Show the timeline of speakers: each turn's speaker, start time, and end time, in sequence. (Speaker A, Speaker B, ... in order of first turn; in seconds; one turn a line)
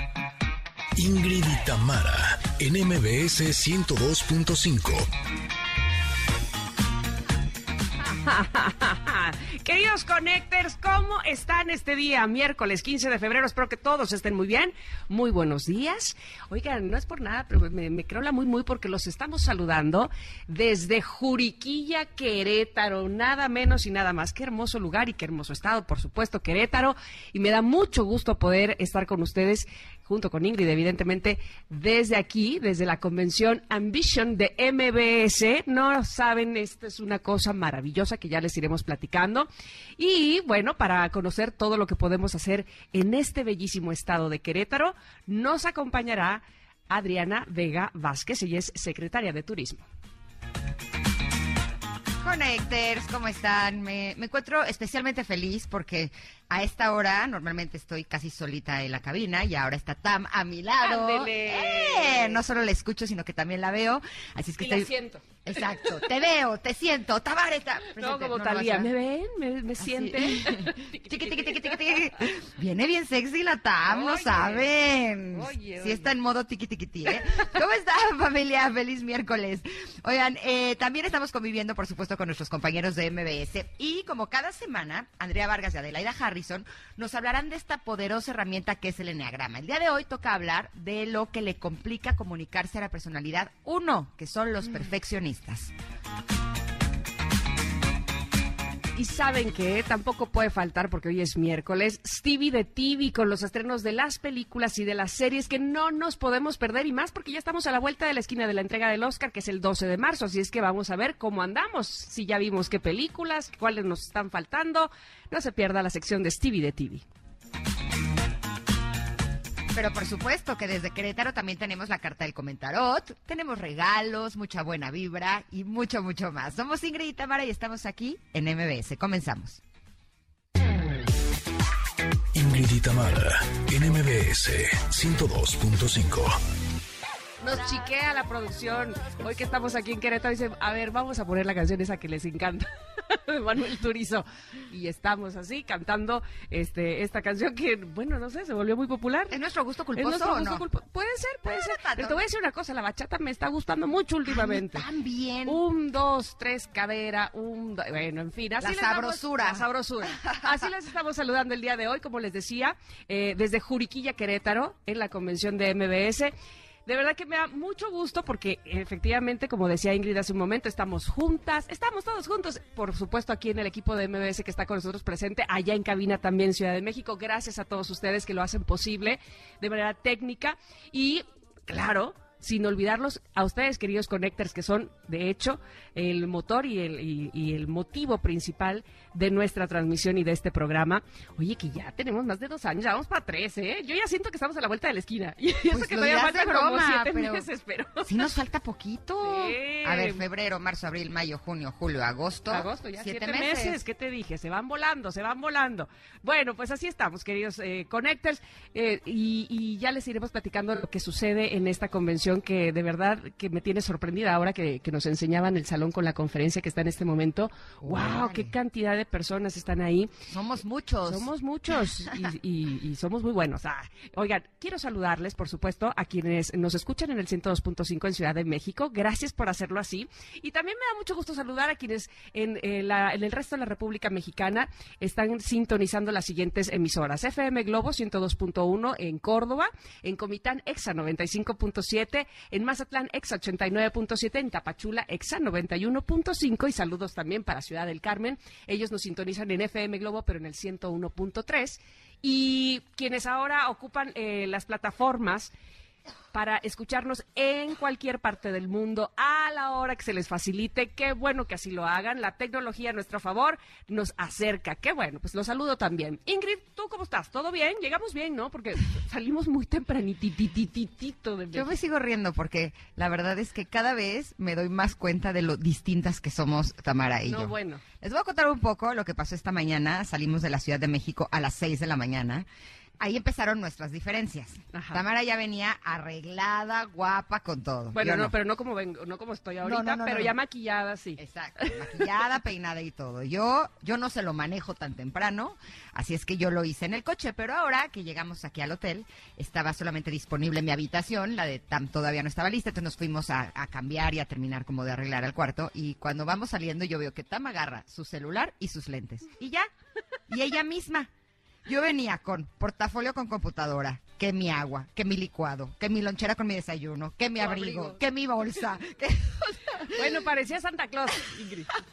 Speaker A: 1.0-5.1
Speaker B: 8.0-49.9
Speaker C: 52.2-64.9
Speaker B: 60.8-62.4
Speaker B: 64.6-65.2
Speaker C: 65.5-68.9
Speaker B: 68.0-72.0
Speaker C: 69.8-95.7
Speaker B: 73.9-74.7
Speaker B: 75.3-76.1
Speaker B: 99.0-117.0
Speaker C: 119.7-129.6
Speaker A: 132.3-136.4
Speaker B: 137.4-149.4
Speaker C: 149.3-150.7
Speaker B: 150.0-154.9
Speaker C: 151.4-152.2
Speaker C: 154.3-155.6
Speaker B: 155.4-166.3
Speaker C: 158.6-160.7
Speaker B: 166.9-198.1
Speaker C: 195.7-197.5
Speaker C: 198.0-203.8
Speaker B: 199.2-200.2
Speaker B: 202.5-220.1
Speaker C: 217.8-218.5
Speaker C: 220.3-221.3
Speaker B: 221.1-255.5
Speaker B: 256.3-271.7
Speaker C: 271.5-282.5
Speaker B: 277.3-277.8
Speaker C: 283.0-288.4
Speaker B: 284.7-285.0
Speaker B: 287.9-291.9
Speaker C: 289.6-290.4
Speaker C: 291.2-309.7
Speaker C: 310.3-311.1
Speaker C: 311.7-320.2
Speaker B: 317.4-318.0
Speaker B: 319.9-321.7